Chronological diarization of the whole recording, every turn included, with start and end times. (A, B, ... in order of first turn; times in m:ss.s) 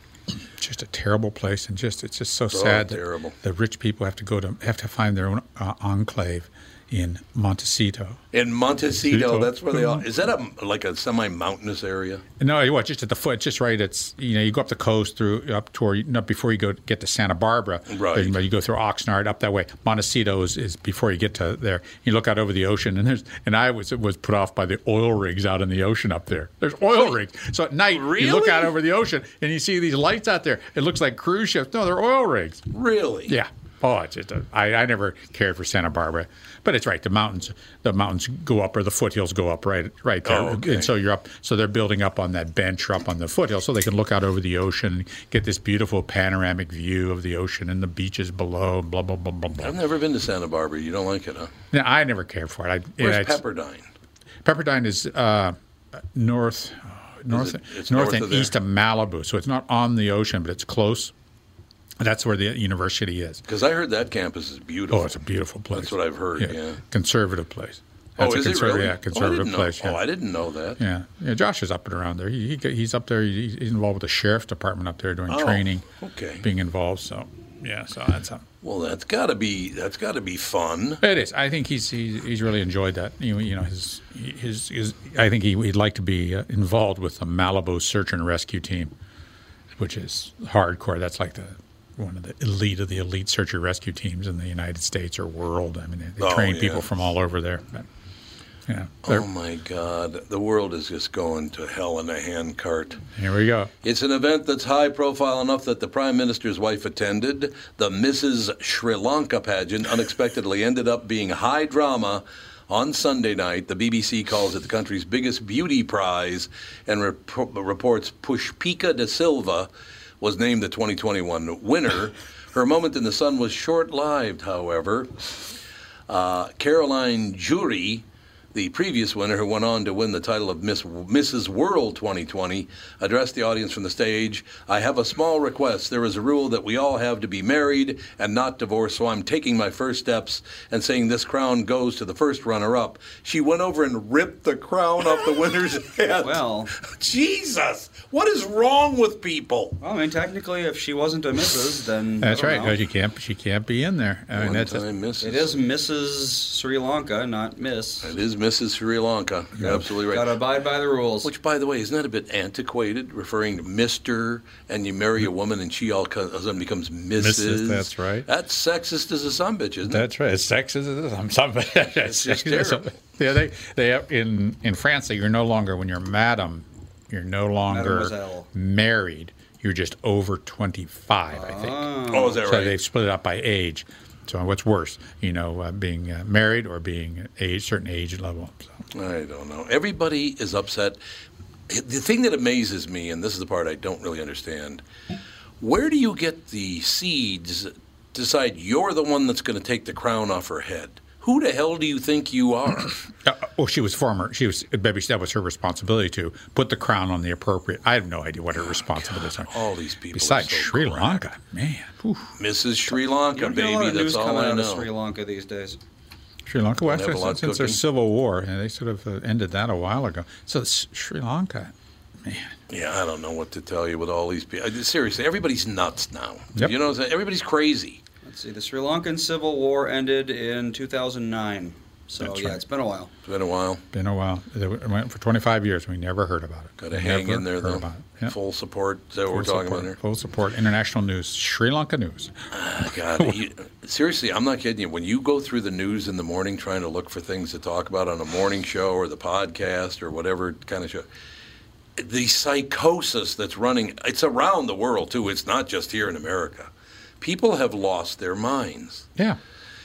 0:00.6-0:08.2 A
0:02.5-0:03.4 B
0:08.3-0:12.2 B
0:09.1-0:10.1 A
0:12.4-0:32.6 A
0:17.9-0:18.4 B
0:27.9-0:28.7 B
0:32.7-0:33.3 B
0:33.3-0:49.8 A
0:40.2-0:40.9 B
0:49.6-0:51.5 B
0:51.7-0:53.4 A
0:53.0-0:53.8 B
0:54.4-1:01.1 A
0:57.3-0:58.5 B
1:02.0-1:03.4 A
1:03.5-1:05.2 B
1:04.9-1:10.0 A
1:05.7-1:06.8 B
1:08.2-1:10.8 B
1:10.8-1:15.8 A
1:15.3-1:16.4 B
1:16.4-1:18.4 A
1:18.6-1:21.0 B
1:21.0-1:28.9 A
1:29.8-1:37.8 A
1:36.2-1:36.8 B
1:38.7-1:39.2 A
1:39.0-1:43.0 B
1:43.2-1:43.7 A
1:43.8-1:59.7 B
2:00.2-2:05.1 B
2:06.1-2:29.8 B
2:26.2-2:26.7 C
2:29.8-2:32.8 C
2:32.2-2:34.8 A
2:34.3-2:35.5 B
2:35.2-2:38.1 C
2:38.0-2:40.3 B
2:39.6-2:41.3 C
2:41.2-2:50.1 B
2:47.2-2:48.3 A
2:49.9-3:08.8 A
2:52.0-2:53.0 B
2:57.7-2:58.5 C
3:01.3-3:02.4 C
3:02.1-3:02.8 B
3:08.9-3:11.0 B
3:11.7-3:14.8 B
3:15.6-3:22.9 B
3:23.2-3:32.3 A
3:28.6-3:31.2 B
3:32.4-3:34.9 B
3:33.3-3:35.8 C
3:36.4-3:41.7 A
3:36.8-3:37.8 B
3:42.2-3:42.5 A
3:42.7-3:48.0 B
3:48.2-3:53.1 C
3:52.2-3:52.6 A
3:53.2-3:53.8 B
3:53.9-3:58.3 A
3:56.8-4:00.0 B
3:59.3-4:02.3 A
4:02.5-4:11.0 B
4:12.0-4:16.7 B
4:17.2-4:19.1 B